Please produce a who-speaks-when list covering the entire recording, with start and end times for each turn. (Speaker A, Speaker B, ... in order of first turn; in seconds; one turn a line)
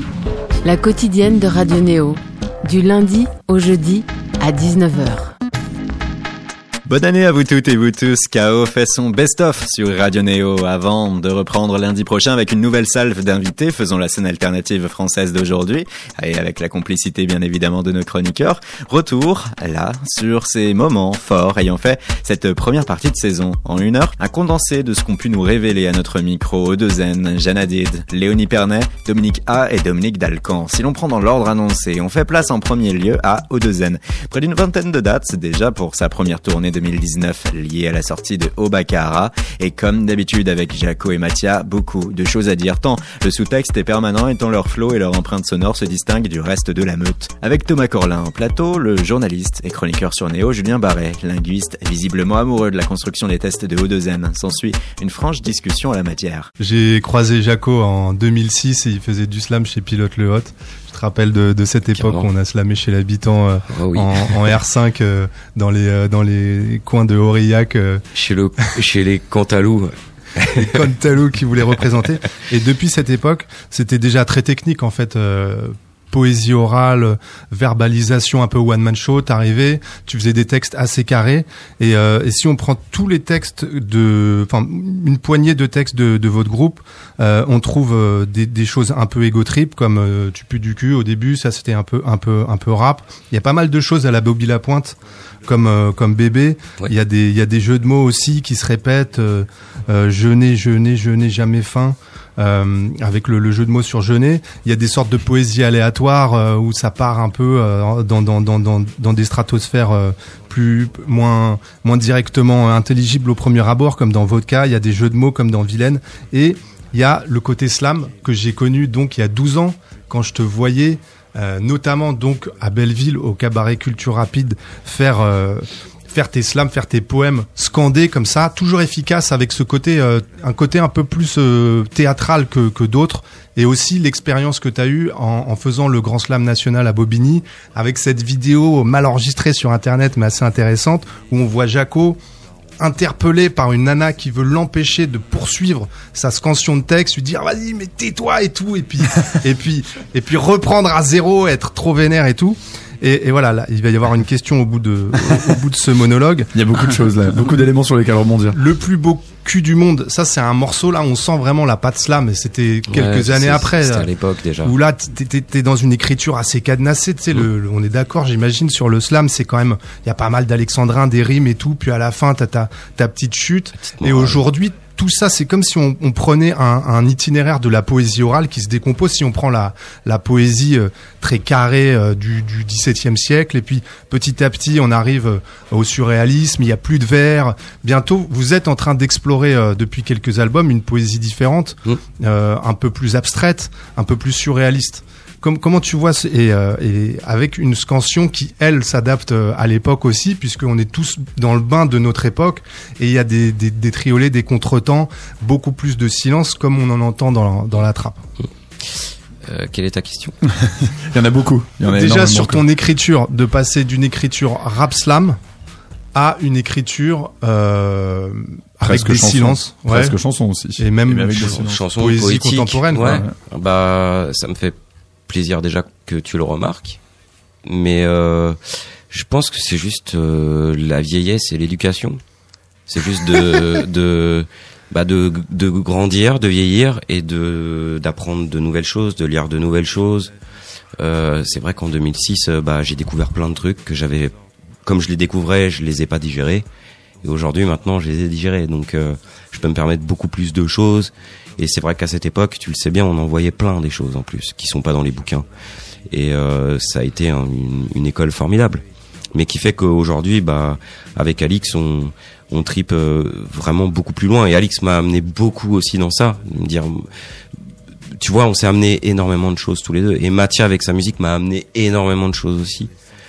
Speaker A: 0.6-5.3
Speaker B: 6.9-56.5
Speaker C: 56.6-68.0
Speaker D: 62.0-62.3
Speaker D: 63.7-64.5
Speaker D: 68.1-70.8
Speaker C: 70.4-142.2
Speaker C: 142.8-156.6
Speaker E: 156.6-158.6
Speaker C: 158.5-164.1
Speaker D: 162.9-164.8
Speaker C: 164.6-208.2
Speaker D: 173.9-174.4
Speaker D: 208.9-210.4
Speaker E: 210.6-212.6
Speaker C: 211.8-215.4
Speaker C: 216.2-220.2
Speaker E: 218.8-221.8
Speaker C: 220.8-223.2
Speaker D: 221.5-224.8
Speaker E: 223.0-223.3
Speaker D: 225.3-227.0
Speaker D: 227.7-228.6
Speaker D: 229.1-232.2
Speaker D: 232.9-240.3
Speaker D: 241.0-244.3
Speaker D: 244.8-246.7
Speaker D: 247.2-255.4
Speaker D: 256.1-258.8
Speaker D: 259.4-267.1
Speaker D: 268.1-272.9